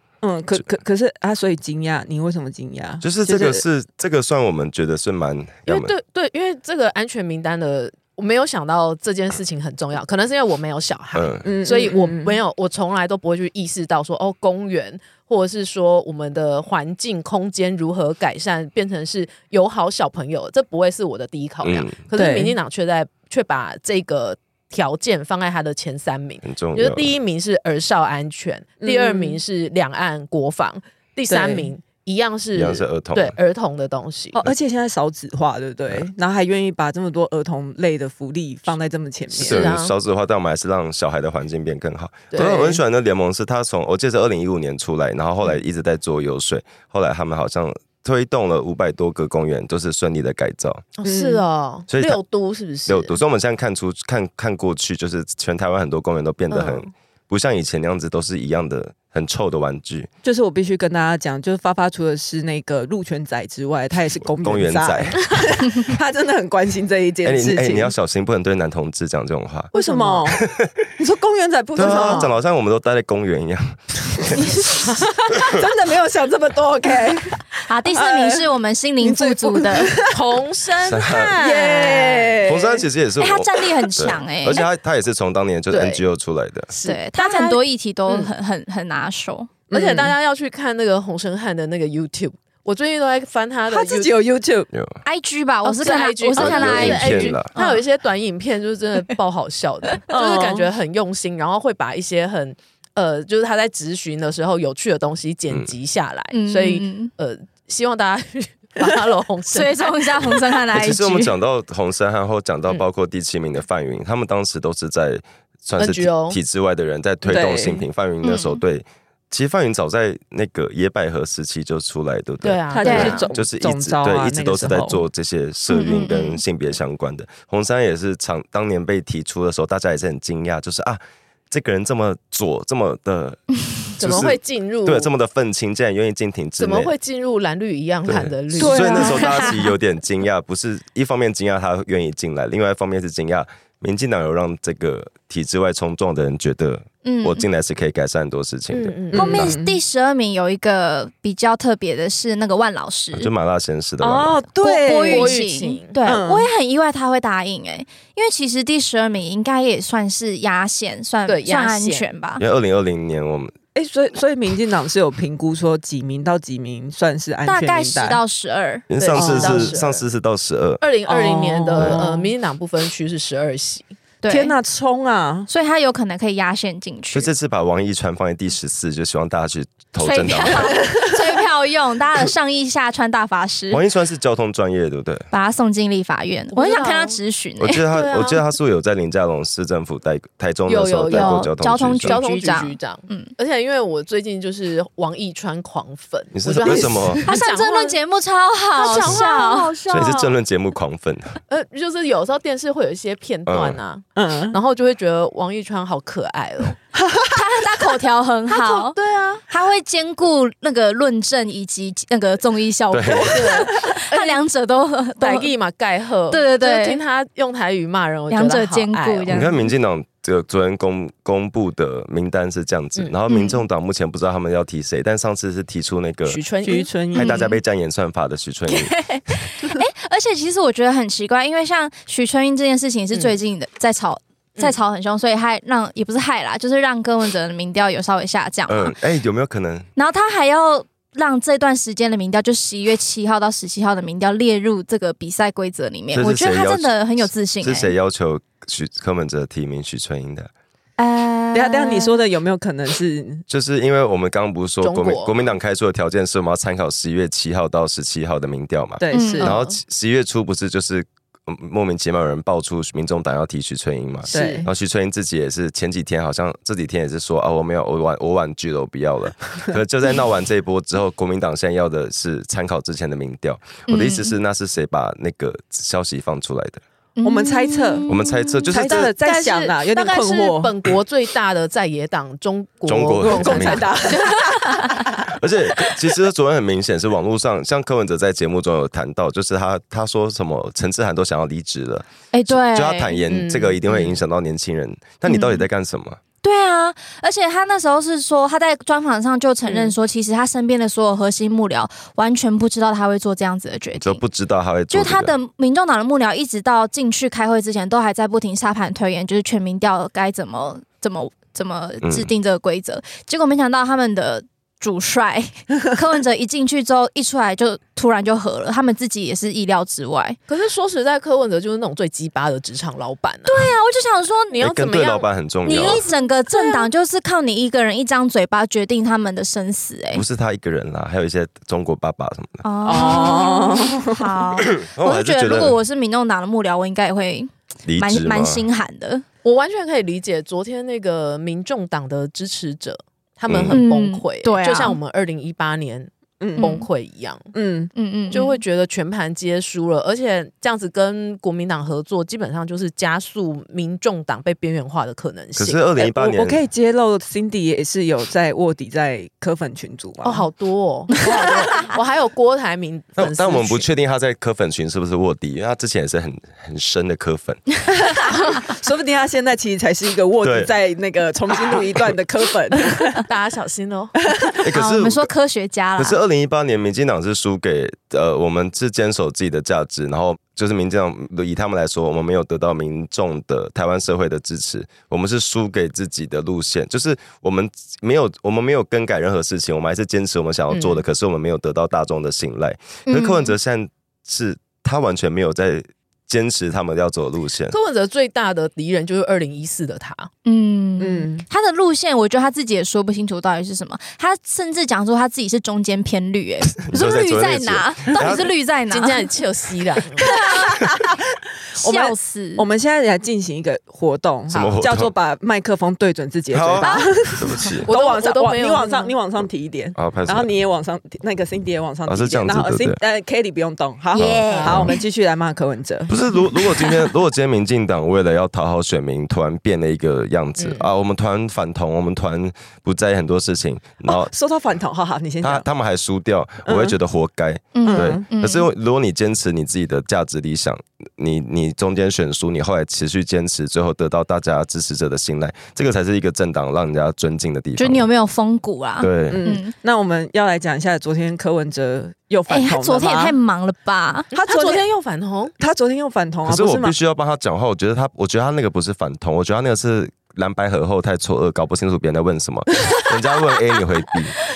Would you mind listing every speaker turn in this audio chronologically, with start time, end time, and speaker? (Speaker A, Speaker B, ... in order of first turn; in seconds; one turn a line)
Speaker A: 0.2-3.6
Speaker B: 3.0-5.9
Speaker C: 5.7-34.4
Speaker B: 11.1-11.5
Speaker A: 11.4-12.4
Speaker B: 21.6-22.0
Speaker A: 22.2-22.6
Speaker B: 26.4-27.1
Speaker A: 28.8-29.4
Speaker A: 31.3-31.7
Speaker B: 32.5-33.4
Speaker A: 34.3-39.7
Speaker C: 39.3-40.0
Speaker B: 39.4-50.8
Speaker C: 42.3-42.8
Speaker C: 51.0-53.2
Speaker A: 51.0-51.4
Speaker B: 51.9-52.2
Speaker B: 52.9-60.1
Speaker C: 56.5-56.8
Speaker A: 60.2-68.0
Speaker B: 64.2-65.9
Speaker B: 67.2-69.7
Speaker A: 69.7-72.3
Speaker C: 69.7-70.4
Speaker B: 70.3-70.7
Speaker B: 71.8-74.8
Speaker C: 71.8-72.4
Speaker A: 74.3-78.5
Speaker D: 77.6-80.0
Speaker A: 79.0-80.2
Speaker C: 80.1-82.4
Speaker B: 80.8-81.3
Speaker A: 81.4-82.9
Speaker B: 82.5-86.7
Speaker D: 83.2-84.6
Speaker C: 85.7-86.0
Speaker C: 86.7-88.3
Speaker D: 86.8-89.5
Speaker A: 89.7-90.1
Speaker C: 89.7-94.2
Speaker A: 93.7-94.7
Speaker B: 94.7-95.0
Speaker D: 95.0-97.8
Speaker C: 95.6-110.4
Speaker B: 96.4-97.5
Speaker A: 100.1-100.7
Speaker D: 106.3-107.1
Speaker D: 109.5-111.3
Speaker B: 110.7-133.5
Speaker C: 115.8-116.4
Speaker A: 117.2-117.8
Speaker D: 118.2-118.6
Speaker C: 122.4-123.3
Speaker A: 122.7-125.0
Speaker D: 122.8-123.2
Speaker D: 125.7-126.4
Speaker C: 134.0-135.1
Speaker B: 134.0-136.9
Speaker C: 136.6-139.6
Speaker B: 138.1-149.6
Speaker A: 138.6-139.5
Speaker D: 138.8-139.5
Speaker D: 147.0-147.5
Speaker C: 148.7-149.3
Speaker A: 149.1-149.8
Speaker D: 149.1-153.3
Speaker B: 153.1-154.4
Speaker A: 154.0-155.4
Speaker D: 154.6-162.4
Speaker C: 154.9-156.0
Speaker A: 156.0-156.5
Speaker C: 161.3-162.1
Speaker B: 162.4-163.5
Speaker A: 163.8-168.2
Speaker D: 167.4-168.9
Speaker B: 168.9-170.8
Speaker C: 169.0-170.1
Speaker A: 169.2-169.8
Speaker C: 170.8-173.9
Speaker A: 171.1-172.3
Speaker B: 171.8-172.0
Speaker D: 174.2-174.6
Speaker A: 174.3-175.5
Speaker D: 175.5-177.3
Speaker B: 177.1-180.9
Speaker D: 180.0-183.8
Speaker B: 183.7-185.3
Speaker D: 185.3-187.9
Speaker C: 186.5-187.2
Speaker B: 187.6-192.2
Speaker C: 187.9-188.4
Speaker C: 190.7-198.0
Speaker D: 191.1-193.3
Speaker B: 196.3-197.2
Speaker A: 196.6-197.2
Speaker D: 197.2-199.8
Speaker C: 198.8-200.4
Speaker B: 199.9-201.4
Speaker C: 201.5-206.8
Speaker B: 203.5-203.8
Speaker A: 204.2-204.6
Speaker A: 206.9-207.5
Speaker D: 207.3-208.9
Speaker C: 208.5-209.4
Speaker D: 209.5-215.5
Speaker B: 212.9-213.4
Speaker C: 213.2-214.4
Speaker C: 215.2-219.5
Speaker D: 216.3-217.0
Speaker D: 218.3-219.7
Speaker B: 219.3-226.4
Speaker D: 223.3-223.6
Speaker C: 226.3-226.9
Speaker A: 226.6-227.4
Speaker D: 227.2-227.6
Speaker B: 227.2-228.9
Speaker D: 228.7-238.9
Speaker B: 238.7-239.9
Speaker D: 240.0-247.9
Speaker B: 246.1-247.0
Speaker B: 247.6-250.5
Speaker D: 251.0-252.2
Speaker A: 251.5-253.5
Speaker B: 253.5-276.8
Speaker C: 254.8-255.3
Speaker A: 259.0-259.6
Speaker D: 259.1-259.6
Speaker C: 259.4-259.8
Speaker A: 264.3-264.7
Speaker C: 264.3-264.6
Speaker D: 273.9-274.4
Speaker D: 277.2-278.7
Speaker A: 277.2-278.1
Speaker B: 278.1-279.1
Speaker A: 278.7-280.8
Speaker C: 278.7-284.3
Speaker B: 282.9-283.9
Speaker A: 283.2-285.3
Speaker D: 284.1-284.9
Speaker B: 285.3-296.2
Speaker D: 292.3-293.2
Speaker C: 293.3-294.2
Speaker D: 295.3-295.7
Speaker D: 296.4-304.2
Speaker C: 299.6-299.9
Speaker B: 304.0-305.4
Speaker D: 304.9-320.4
Speaker B: 312.0-312.3
Speaker C: 320.5-323.7
Speaker D: 323.5-324.6
Speaker C: 324.5-326.9
Speaker B: 324.6-326.0
Speaker D: 325.6-330.2
Speaker B: 330.1-332.6
Speaker D: 332.6-339.2
Speaker A: 332.9-334.4
Speaker B: 334.6-335.8
Speaker B: 337.9-338.6
Speaker C: 339.4-347.5
Speaker B: 343.5-343.8
Speaker D: 343.7-345.0
Speaker A: 346.4-346.7
Speaker D: 346.6-346.9
Speaker A: 347.5-347.9
Speaker D: 347.9-348.6
Speaker C: 348.3-355.9
Speaker B: 355.6-356.6
Speaker A: 356.0-360.5
Speaker C: 360.2-363.9
Speaker A: 361.3-361.7
Speaker B: 363.2-367.8
Speaker A: 367.9-373.2
Speaker B: 370.4-370.7
Speaker C: 373.2-374.2
Speaker B: 374.6-375.3
Speaker D: 374.7-376.2
Speaker B: 376.0-397.8
Speaker C: 390.7-391.0
Speaker D: 393.1-393.6
Speaker C: 397.7-400.3
Speaker D: 400.5-409.2
Speaker A: 401.0-401.5
Speaker B: 406.8-408.5
Speaker C: 408.9-410.4
Speaker D: 410.2-410.8
Speaker D: 411.8-412.6
Speaker A: 412.6-426.2
Speaker B: 414.5-415.1
Speaker C: 414.5-414.8
Speaker B: 416.5-417.9
Speaker D: 416.8-417.1
Speaker C: 417.9-419.1
Speaker B: 419.9-420.5
Speaker B: 422.1-423.0
Speaker D: 424.1-425.0
Speaker B: 424.2-424.9
Speaker B: 426.1-434.3
Speaker C: 430.6-430.9
Speaker A: 434.1-435.7
Speaker B: 435.4-448.1
Speaker A: 436.6-437.0
Speaker D: 437.8-438.7
Speaker A: 437.9-438.3
Speaker D: 447.8-449.7
Speaker B: 449.0-449.5
Speaker A: 449.3-453.4
Speaker D: 452.5-454.3
Speaker A: 454.3-454.9
Speaker C: 454.3-455.5
Speaker A: 455.6-457.0
Speaker B: 456.5-464.3